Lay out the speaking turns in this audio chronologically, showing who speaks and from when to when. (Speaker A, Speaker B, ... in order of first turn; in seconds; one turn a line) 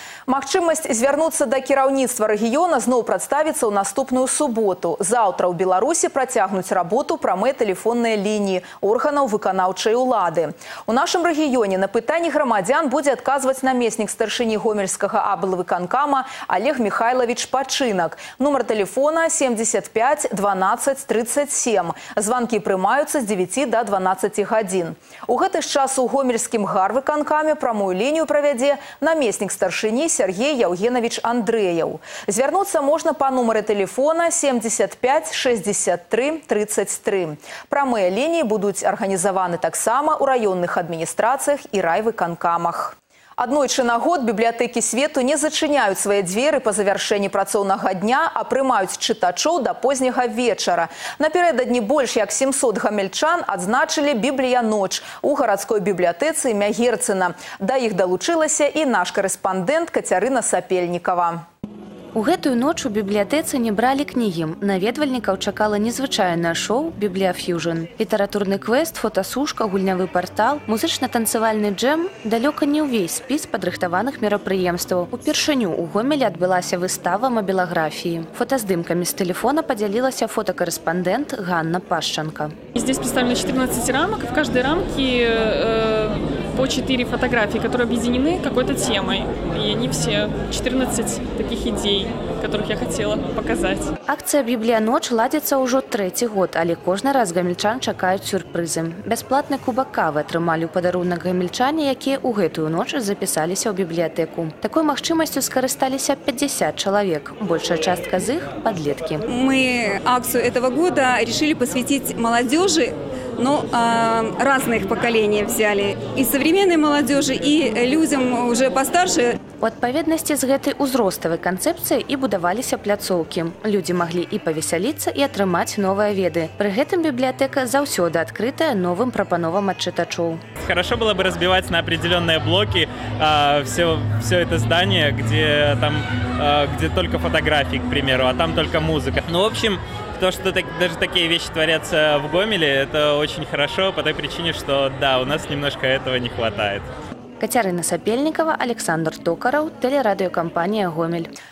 Speaker A: 0.3-61.5
Speaker B: 62.1-82.5
Speaker C: 82.8-93.9
Speaker B: 94.1-109.2
Speaker D: 109.3-119.4
Speaker B: 119.6-130.4
Speaker E: 130.6-146.9
Speaker B: 147.4-151.3